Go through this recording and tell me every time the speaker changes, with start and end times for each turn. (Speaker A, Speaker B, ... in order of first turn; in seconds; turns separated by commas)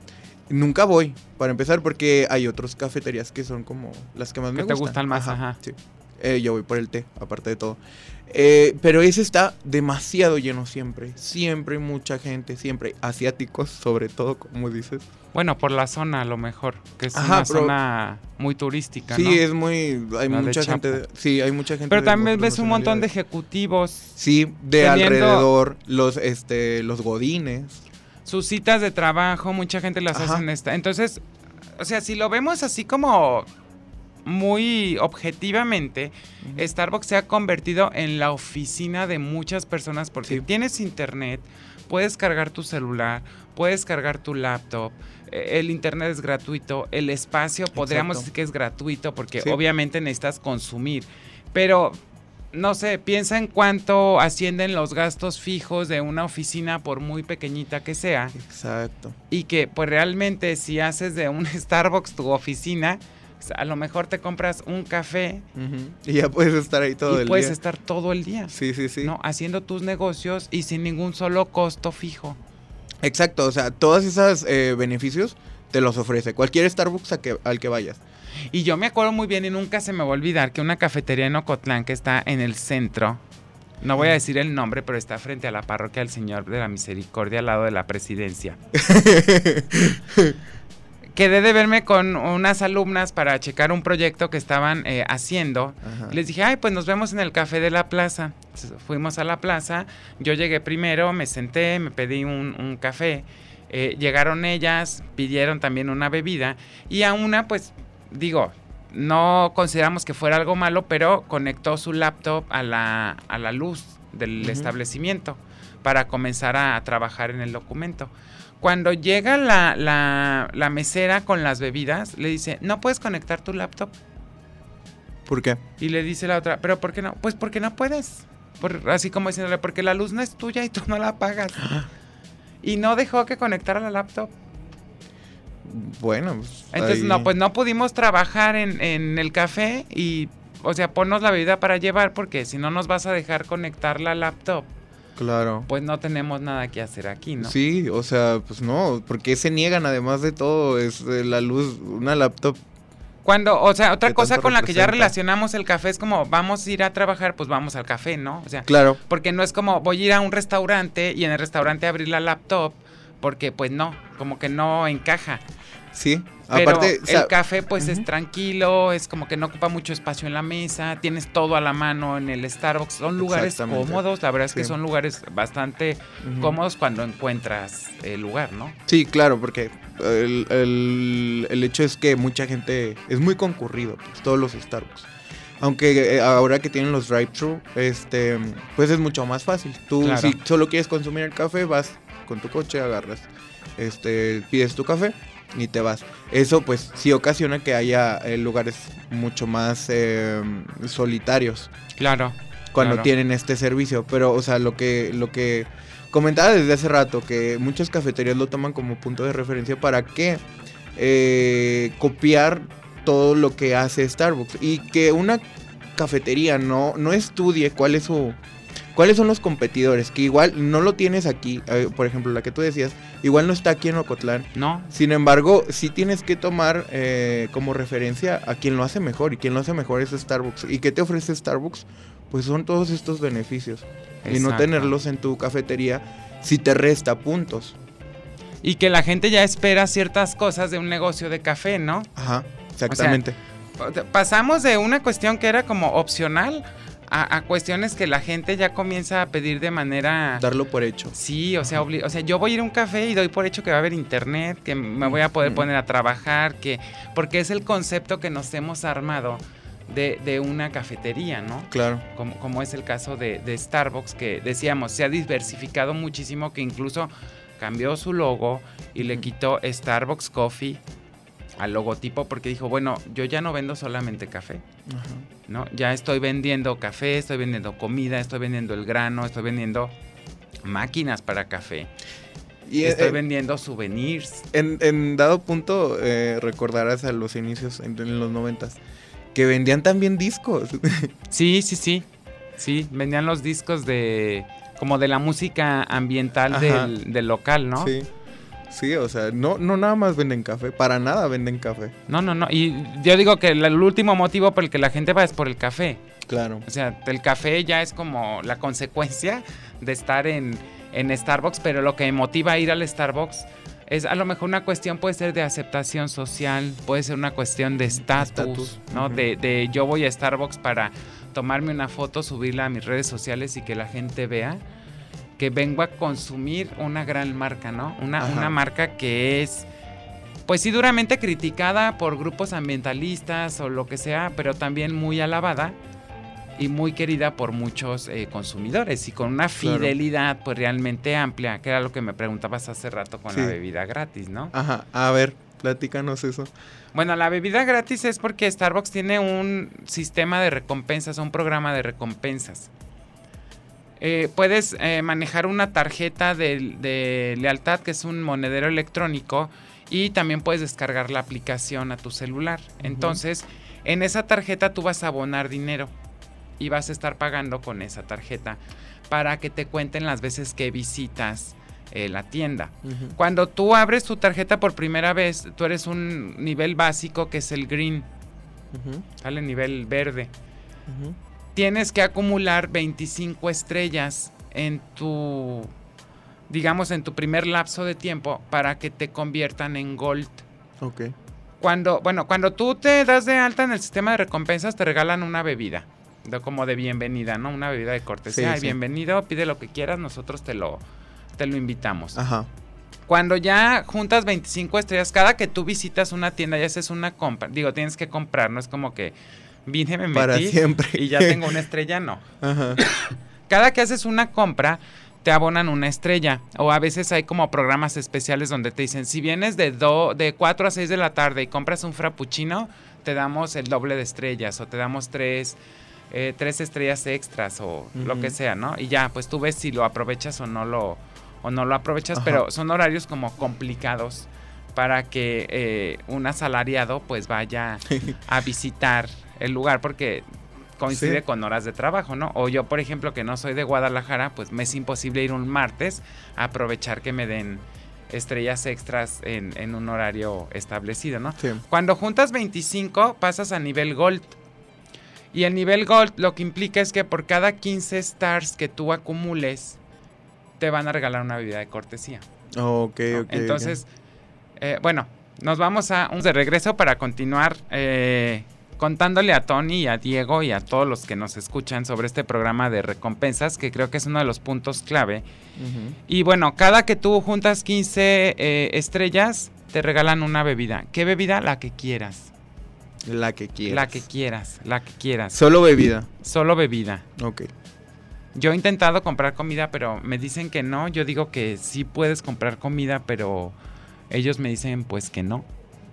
Speaker A: 0.5-15.1, Speaker B: 4.5-5.6, Speaker B: 15.3-19.4, Speaker A: 17.1-17.7, Speaker A: 19.1-23.1, Speaker B: 20.3-21.0, Speaker B: 21.9-24.1, Speaker A: 24.2-27.8, Speaker B: 24.8-25.5, Speaker B: 28.2-31.2, Speaker A: 30.1-30.4, Speaker B: 31.8-33.5, Speaker B: 34.2-52.0, Speaker A: 36.4-36.7, Speaker A: 47.7-48.3, Speaker B: 52.5-58.4, Speaker A: 58.3-59.2, Speaker B: 59.3-65.5, Speaker A: 65.5-67.6, Speaker B: 67.1-72.4, Speaker A: 68.5-69.1, Speaker A: 73.0-78.0, Speaker B: 78.5-83.2, Speaker B: 83.8-88.6, Speaker A: 88.7-90.4, Speaker B: 91.2-123.9, Speaker A: 95.8-96.2, Speaker A: 114.4-114.7, Speaker A: 125.2-125.6, Speaker B: 125.8-131.7, Speaker A: 131.6-131.9, Speaker B: 132.6-134.3, Speaker A: 135.6-137.3, Speaker B: 136.7-144.7, Speaker A: 145.2-145.7, Speaker B: 145.7-147.5, Speaker A: 147.4-152.6, Speaker B: 153.2-165.4, Speaker A: 154.1-155.1, Speaker A: 158.7-159.0, Speaker A: 165.9-168.0, Speaker B: 166.5-178.8, Speaker A: 173.2-174.7, Speaker A: 176.2-176.5, Speaker A: 178.9-185.1, Speaker A: 185.6-201.7, Speaker B: 190.0-190.4, Speaker B: 202.0-203.1, Speaker A: 202.7-210.4, Speaker A: 210.9-215.4, Speaker A: 215.9-218.4, Speaker A: 218.9-237.8, Speaker B: 224.5-224.9, Speaker B: 234.2-234.9, Speaker B: 238.6-242.1, Speaker A: 242.2-243.3, Speaker B: 242.9-243.2, Speaker B: 243.8-250.4, Speaker A: 250.4-251.1, Speaker B: 251.1-270.8, Speaker A: 255.0-255.6, Speaker A: 261.7-262.0, Speaker A: 269.0-269.2, Speaker B: 271.6-274.6, Speaker A: 274.9-275.3, Speaker B: 275.5-279.9, Speaker B: 280.6-281.9, Speaker A: 282.6-283.2, Speaker B: 282.8-284.4, Speaker A: 284.5-288.8, Speaker A: 289.3-291.1, Speaker B: 291.3-292.1, Speaker B: 292.6-297.9, Speaker A: 296.5-296.9, Speaker A: 297.8-298.1, Speaker A: 298.7-301.9, Speaker B: 302.1-306.0, Speaker A: 306.3-306.6, Speaker B: 306.6-324.6, Speaker A: 317.9-319.2, Speaker B: 325.4-329.7, Speaker A: 328.2-328.6, Speaker B: 330.5-335.8, Speaker B: 336.6-344.5, Speaker A: 339.6-339.9, Speaker A: 344.5-346.5, Speaker B: 346.9-352.7, Speaker B: 354.0-365.9, Speaker A: 362.8-363.2, Speaker B: 366.6-368.6, Speaker B: 369.1-378.1, Speaker A: 372.8-373.1, Speaker A: 378.7-379.0, Speaker B: 379.2-380.3, Speaker A: 380.9-381.1, Speaker B: 381.5-385.7, Speaker B: 386.5-390.4, Speaker A: 390.8-391.1, Speaker B: 391.6-400.8, Speaker A: 398.3-398.8, Speaker B: 401.4-402.2, Speaker A: 402.1-402.5, Speaker B: 403.1-409.1, Speaker B: 409.6-412.2, Speaker A: 410.1-411.4, Speaker A: 412.4-412.8, Speaker B: 412.8-425.6, Speaker B: 426.1-440.2, Speaker A: 428.0-428.4, Speaker A: 432.1-432.4, Speaker A: 437.9-438.1, Speaker B: 440.8-454.4, Speaker A: 440.9-441.2, Speaker B: 455.3-459.8, Speaker B: 460.6-462.2, Speaker A: 462.6-463.8, Speaker B: 463.1-463.9, Speaker B: 464.6-475.2, Speaker A: 475.6-476.0, Speaker B: 476.1-482.3, Speaker A: 483.1-484.0, Speaker B: 483.7-485.4, Speaker A: 485.3-486.1, Speaker B: 486.2-487.1, Speaker A: 487.2-487.5, Speaker B: 488.3-493.5, Speaker B: 494.1-495.5